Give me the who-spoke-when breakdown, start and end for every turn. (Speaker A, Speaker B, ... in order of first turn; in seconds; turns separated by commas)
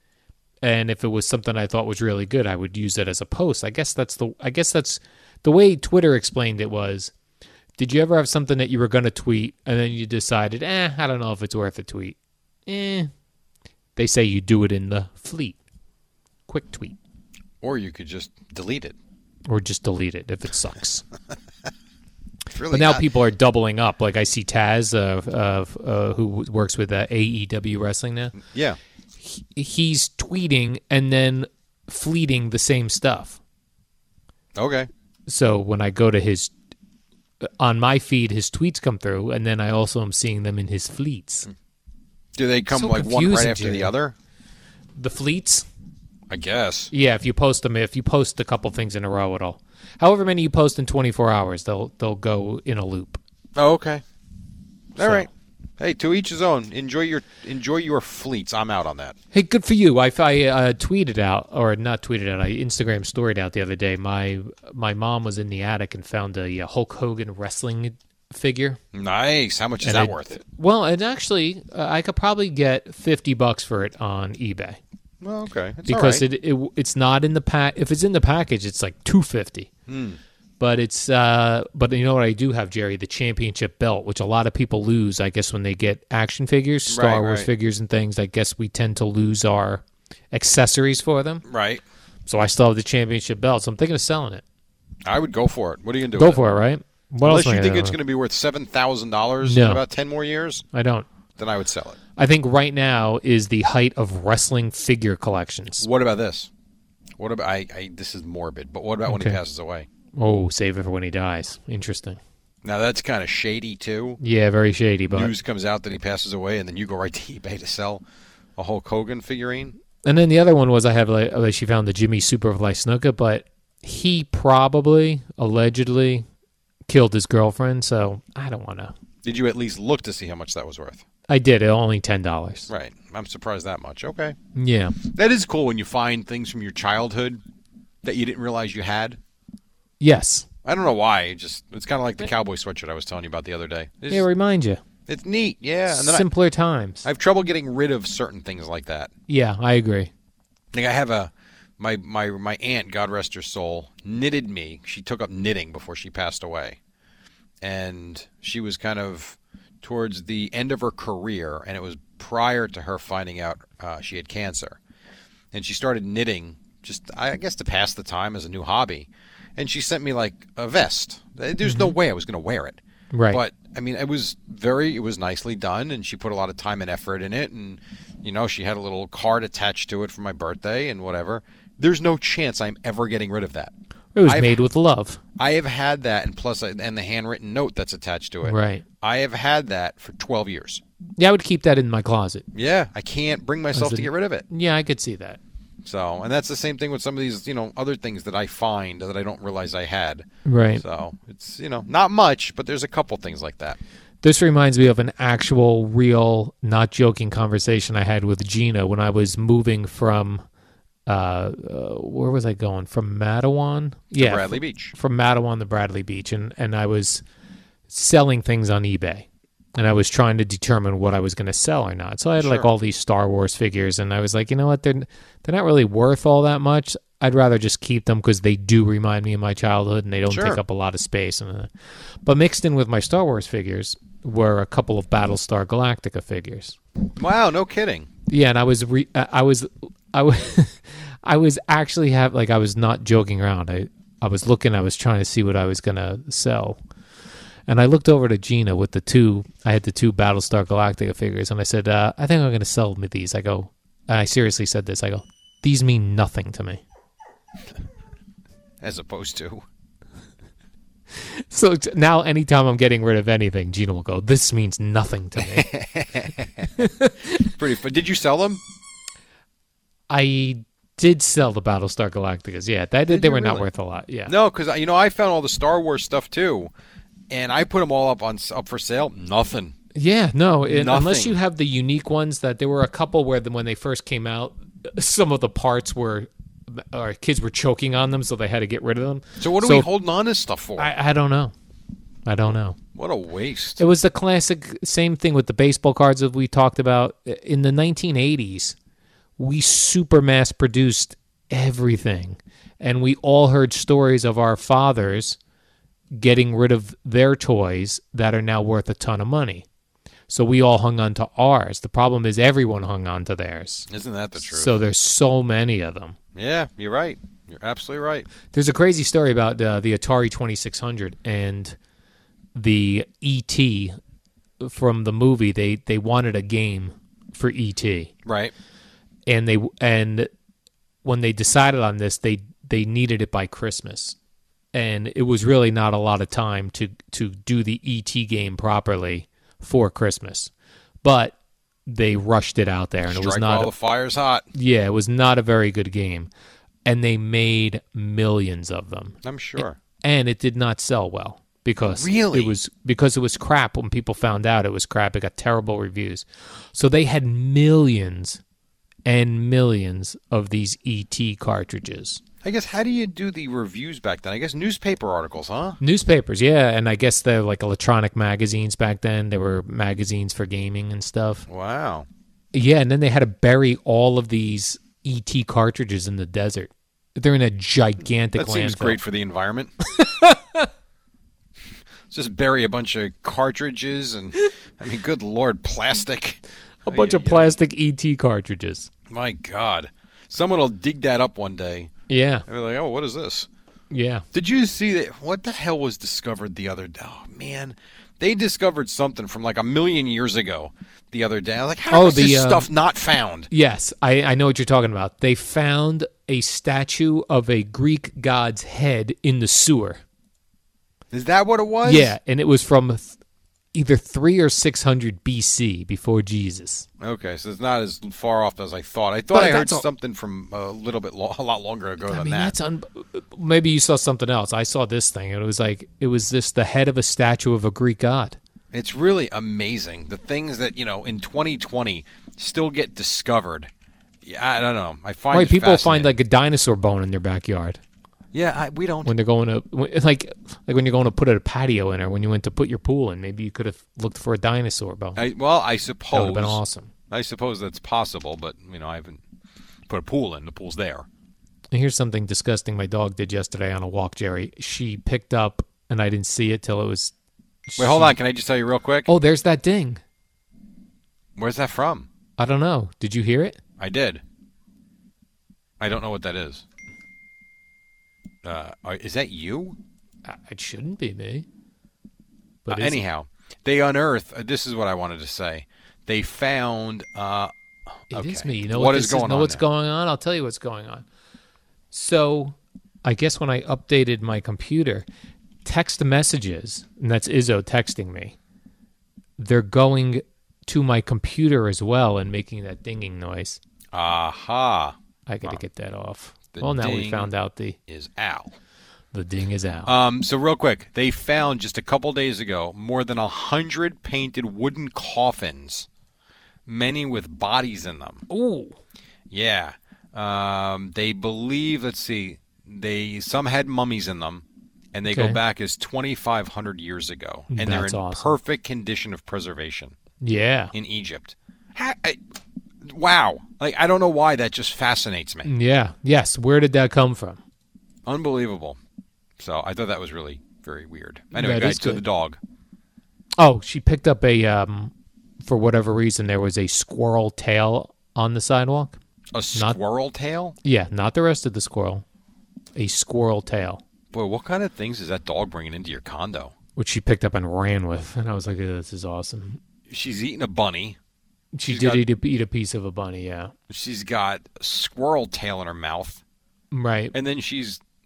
Speaker A: 0.6-7.1, Speaker A: 7.8-13.1, Speaker A: 14.0-15.6, Speaker A: 16.5-17.0, Speaker B: 17.6-19.0, Speaker A: 19.5-21.1, Speaker B: 22.5-23.1, Speaker A: 22.7-28.4, Speaker B: 28.4-28.8, Speaker A: 29.2-33.4, Speaker B: 34.5-34.9, Speaker A: 35.3-36.5, Speaker A: 37.4-41.5, Speaker B: 42.4-44.1, Speaker A: 42.7-43.9, Speaker A: 45.0-45.7, Speaker B: 46.3-46.9, Speaker A: 46.9-53.2, Speaker B: 53.5-54.0, Speaker B: 55.0-55.3, Speaker A: 55.0-55.3, Speaker B: 55.8-59.2, Speaker A: 59.3-68.8, Speaker B: 68.9-70.4, Speaker A: 69.8-74.8, Speaker B: 75.2-76.3, Speaker A: 75.9-79.7, Speaker B: 79.9-80.2, Speaker A: 80.6-91.4, Speaker B: 86.9-87.5, Speaker B: 91.5-91.8, Speaker A: 92.3-94.4, Speaker B: 95.0-96.4, Speaker A: 96.2-98.0, Speaker B: 97.2-100.6, Speaker A: 99.4-99.8, Speaker A: 100.7-101.1, Speaker B: 101.4-102.0, Speaker A: 102.2-105.9, Speaker B: 105.8-106.5, Speaker B: 107.2-109.9, Speaker A: 109.0-109.4, Speaker A: 110.2-112.2, Speaker B: 112.6-114.2, Speaker A: 114.2-115.3, Speaker B: 115.1-118.0, Speaker B: 118.6-119.8, Speaker A: 120.0-126.3, Speaker A: 126.9-128.9, Speaker B: 129.2-131.0, Speaker A: 131.3-132.7, Speaker B: 132.7-134.4, Speaker A: 134.6-135.0, Speaker B: 135.0-137.4, Speaker B: 138.0-139.2, Speaker A: 140.0-140.5, Speaker B: 140.7-144.3, Speaker A: 144.1-144.8, Speaker B: 145.1-146.3, Speaker A: 145.9-147.1, Speaker B: 147.0-149.1, Speaker A: 149.3-150.1, Speaker B: 150.7-156.8, Speaker B: 157.6-164.8, Speaker B: 165.5-172.8, Speaker A: 171.6-171.9, Speaker A: 173.1-173.4, Speaker B: 173.3-183.7, Speaker A: 184.2-185.2, Speaker B: 184.2-184.6, Speaker B: 185.4-190.8, Speaker A: 188.4-188.8, Speaker A: 191.2-192.5, Speaker B: 192.5-194.5, Speaker A: 193.7-195.4, Speaker B: 195.8-203.8, Speaker A: 200.4-200.8, Speaker A: 204.2-210.4, Speaker A: 211.1-217.2, Speaker B: 214.1-214.9, Speaker A: 217.9-231.7, Speaker B: 222.4-222.7, Speaker B: 230.3-230.6, Speaker A: 232.2-236.8, Speaker B: 237.2-238.1, Speaker A: 238.3-246.8, Speaker A: 247.7-256.8, Speaker B: 258.8-259.6, Speaker A: 261.2-265.7, Speaker B: 265.4-266.7, Speaker A: 266.8-267.5, Speaker B: 267.4-268.6, Speaker A: 270.1-274.3, Speaker B: 273.1-273.7, Speaker B: 274.3-276.7, Speaker B: 277.3-279.8, Speaker A: 279.9-289.9, Speaker B: 280.6-281.4, Speaker B: 289.4-290.9, Speaker A: 290.8-291.5, Speaker A: 292.3-292.8, Speaker B: 292.9-293.8, Speaker A: 293.8-298.8, Speaker A: 299.4-305.4, Speaker A: 306.1-309.7, Speaker A: 310.3-316.2, Speaker B: 313.9-314.8, Speaker B: 316.4-318.3, Speaker A: 318.5-321.8, Speaker A: 322.6-324.0, Speaker A: 324.6-328.1, Speaker B: 328.2-328.5, Speaker A: 329.3-330.3, Speaker A: 331.0-334.2, Speaker A: 334.7-340.5, Speaker A: 341.0-341.4, Speaker A: 341.9-343.7, Speaker B: 343.0-344.5, Speaker A: 344.5-346.3, Speaker A: 346.9-358.4, Speaker B: 349.2-349.8, Speaker B: 351.9-352.6, Speaker A: 359.1-362.2, Speaker B: 362.4-365.8, Speaker A: 365.8-371.5, Speaker B: 371.5-372.1, Speaker A: 372.5-379.0, Speaker B: 378.4-379.7, Speaker A: 380.0-380.7, Speaker B: 382.1-387.6, Speaker A: 386.9-388.9, Speaker B: 389.1-391.9, Speaker A: 392.1-392.5, Speaker B: 392.5-393.5, Speaker A: 393.9-394.2, Speaker B: 394.3-403.5, Speaker A: 401.9-402.7, Speaker A: 403.5-410.0, Speaker B: 411.1-412.1, Speaker A: 411.8-413.2, Speaker A: 413.7-416.9, Speaker B: 417.0-422.6, Speaker A: 419.3-419.9, Speaker A: 422.0-428.4, Speaker B: 428.7-433.7, Speaker B: 434.2-436.1, Speaker A: 435.3-437.8, Speaker B: 438.3-439.1, Speaker A: 439.1-445.2, Speaker B: 445.2-449.2, Speaker A: 446.1-446.9, Speaker B: 449.9-451.1, Speaker A: 451.7-457.1, Speaker A: 457.7-458.2, Speaker B: 457.8-459.1, Speaker A: 459.1-460.0, Speaker B: 461.4-462.1, Speaker A: 462.4-463.6, Speaker B: 463.8-464.2, Speaker B: 465.8-466.6, Speaker B: 468.4-469.8, Speaker A: 470.2-471.5, Speaker A: 472.7-473.0, Speaker B: 472.7-477.5, Speaker B: 478.1-479.6, Speaker A: 478.1-481.1, Speaker A: 481.9-485.1, Speaker A: 485.6-488.4, Speaker A: 489.4-493.6, Speaker B: 493.9-495.6, Speaker A: 495.3-497.8, Speaker B: 496.5-497.3, Speaker B: 497.9-498.6, Speaker A: 499.1-499.9, Speaker B: 499.9-505.9, Speaker B: 506.7-508.2, Speaker A: 508.3-508.8, Speaker B: 509.3-520.0, Speaker A: 515.1-515.4, Speaker A: 517.5-518.4, Speaker A: 520.2-520.7, Speaker B: 520.7-522.2, Speaker B: 522.8-525.5, Speaker A: 525.5-527.4, Speaker B: 528.1-528.8, Speaker B: 529.4-532.4, Speaker A: 531.3-532.0, Speaker A: 533.4-539.0, Speaker B: 539.3-540.6, Speaker A: 540.6-542.0, Speaker A: 542.8-543.8, Speaker B: 544.1-546.5, Speaker A: 546.8-549.6, Speaker B: 549.9-551.0, Speaker A: 551.5-553.5, Speaker B: 551.7-552.1, Speaker B: 553.7-556.2, Speaker A: 556.7-557.1, Speaker B: 557.1-557.8